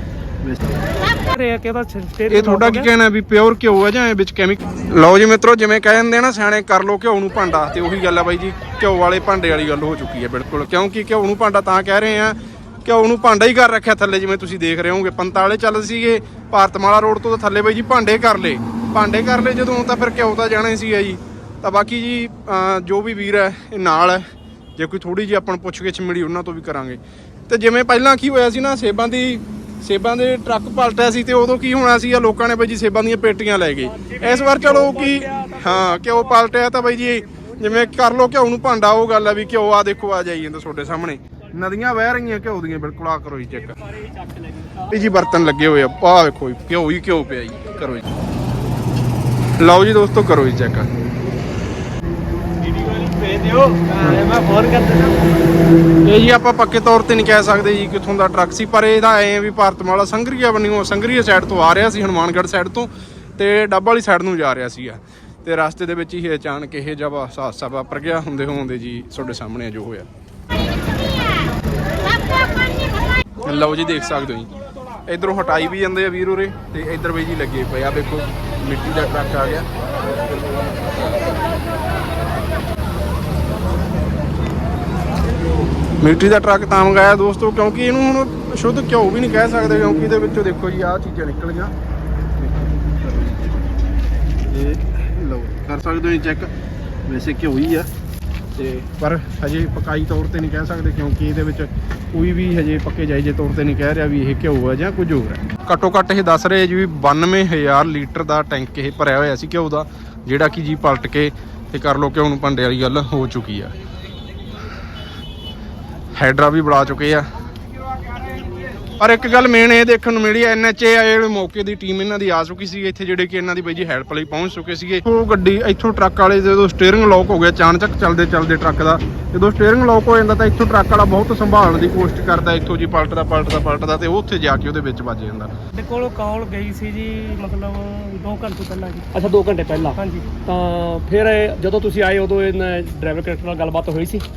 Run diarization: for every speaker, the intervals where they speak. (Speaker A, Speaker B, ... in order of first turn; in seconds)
Speaker A: 1.3-2.9, 34.1-35.4, 135.7-139.1, 140.0-140.3
Speaker B: 2.3-43.8, 44.8-48.1, 49.6-50.9, 56.0-70.1, 73.4-74.5, 75.1-79.7, 86.0-91.7, 92.4-93.6, 94.5-96.5, 97.1-97.9, 98.5-113.7, 116.1-117.3, 119.0-135.5
Speaker C: 52.7-55.2, 139.1-144.2